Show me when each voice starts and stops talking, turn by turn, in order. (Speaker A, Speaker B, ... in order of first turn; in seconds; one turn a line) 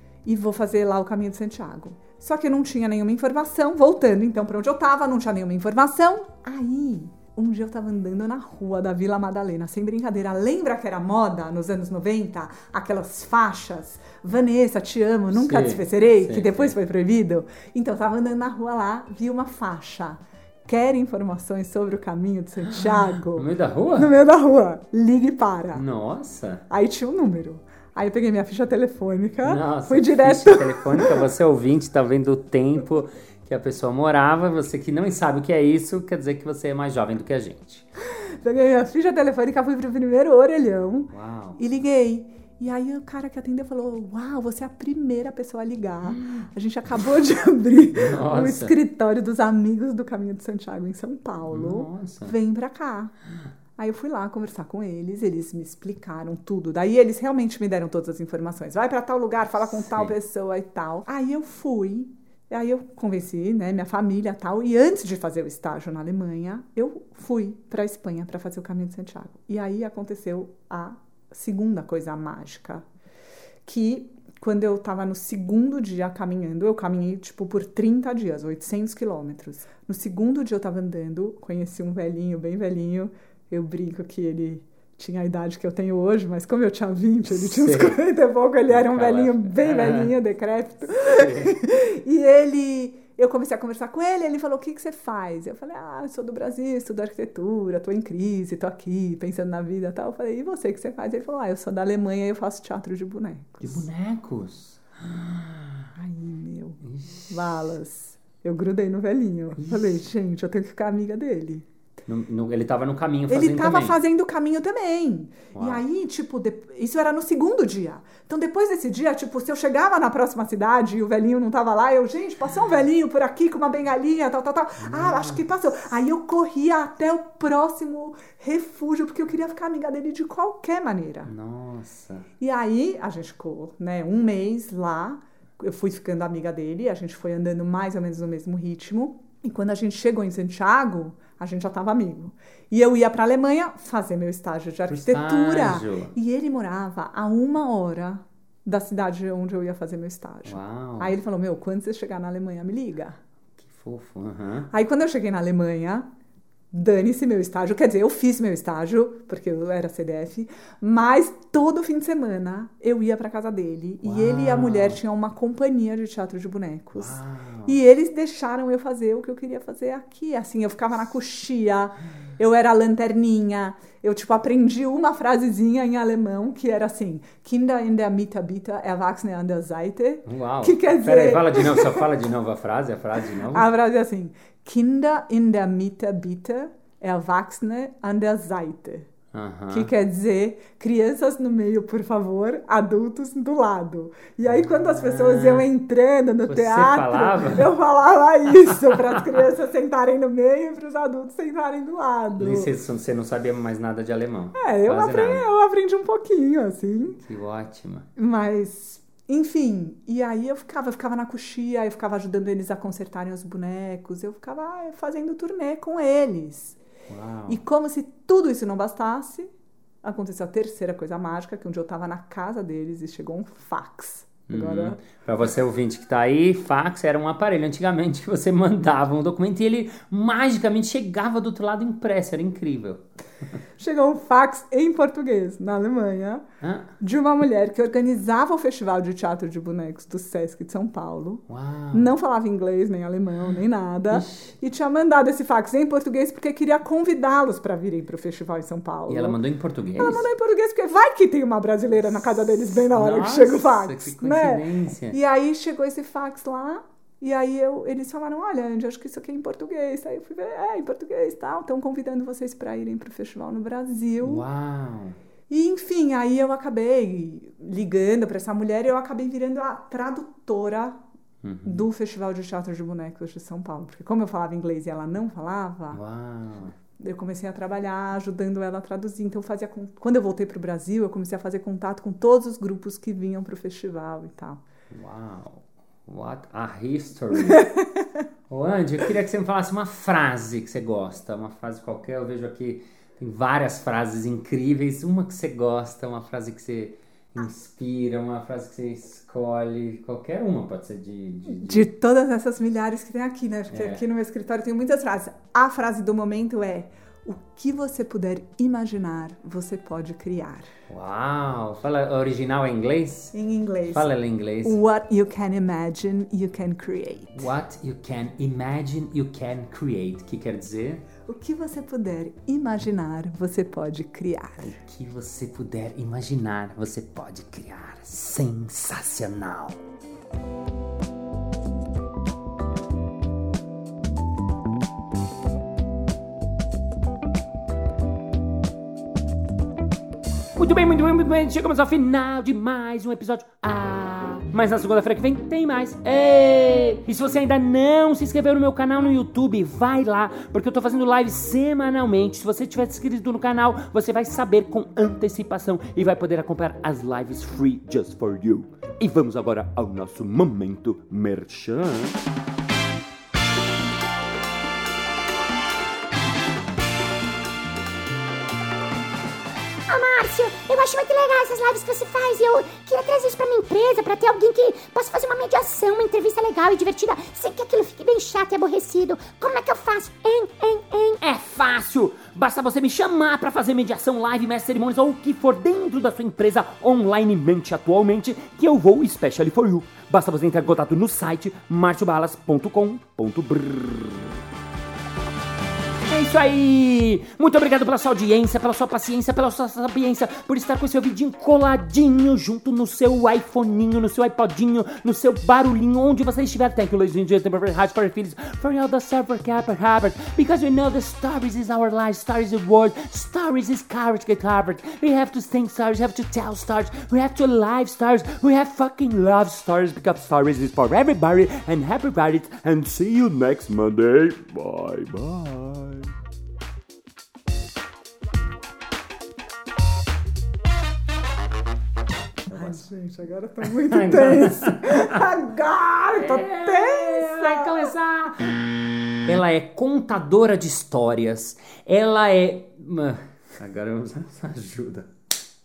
Speaker A: 0.2-25.8
Speaker B: 15.3-16.8
Speaker B: 23.4-24.1
Speaker B: 25.7-26.6
Speaker A: 26.7-31.2
Speaker B: 29.4-37.9
Speaker A: 38.0-53.1
Speaker B: 41.1-41.6
Speaker B: 46.1-46.5
Speaker B: 47.9-48.8
Speaker B: 51.5-52.4
Speaker A: 53.8-72.9
Speaker B: 59.7-60.1
Speaker A: 73.7-103.9
Speaker B: 87.3-88.0
Speaker B: 88.7-90.1
Speaker B: 91.0-91.6
Speaker B: 103.6-105.9
Speaker A: 106.0-111.7
Speaker B: 106.8-107.5
Speaker B: 109.6-109.9
Speaker B: 112.1-114.0
Speaker A: 113.3-131.3
Speaker B: 115.5-115.8
Speaker B: 124.8-125.4
Speaker B: 131.2-132.3
Speaker A: 132.4-153.2
Speaker B: 144.9-146.1
Speaker B: 150.5-151.2
Speaker B: 153.6-154.7
Speaker A: 154.7-156.1
Speaker A: 156.7-182.1
Speaker B: 164.0-165.0
Speaker B: 167.0-167.8
Speaker B: 180.3-183.7
Speaker A: 183.4-189.1
Speaker B: 189.3-189.9
Speaker A: 189.7-202.7
Speaker B: 194.5-195.7
Speaker B: 196.5-197.7
Speaker B: 202.4-205.5
Speaker A: 204.6-207.2
Speaker B: 207.2-208.1
Speaker A: 208.2-216.8
Speaker B: 217.1-217.6
Speaker A: 217.5-219.5
Speaker A: 220.0-225.0
Speaker B: 224.5-233.1
Speaker A: 233.8-236.4
Speaker B: 236.6-236.9
Speaker A: 237.0-249.4
Speaker B: 241.5-242.1
Speaker B: 244.1-244.5
Speaker B: 249.1-250.3
Speaker A: 250.0-264.4
Speaker B: 252.7-255.2
Speaker B: 264.2-265.2
Speaker A: 265.5-271.0
Speaker B: 271.4-271.9
Speaker A: 271.6-276.0
Speaker B: 275.9-276.8
Speaker A: 277.0-284.6
Speaker B: 284.9-287.7
Speaker A: 287.4-288.0
Speaker B: 288.5-301.9
Speaker A: 301.5-310.7
Speaker B: 303.7-304.0
Speaker B: 310.9-313.3
Speaker A: 313.3-314.1
Speaker B: 313.9-314.8
Speaker A: 314.6-317.5
Speaker B: 317.3-321.1
Speaker A: 321.2-324.8
Speaker B: 324.6-329.8
Speaker B: 340.6-362.2
Speaker C: 369.9-381.2
Speaker B: 381.2-394.4
Speaker B: 396.1-426.1
Speaker B: 432.5-432.8
Speaker A: 432.5-437.9
Speaker B: 433.6-435.2
Speaker B: 436.1-438.6
Speaker B: 439.2-445.1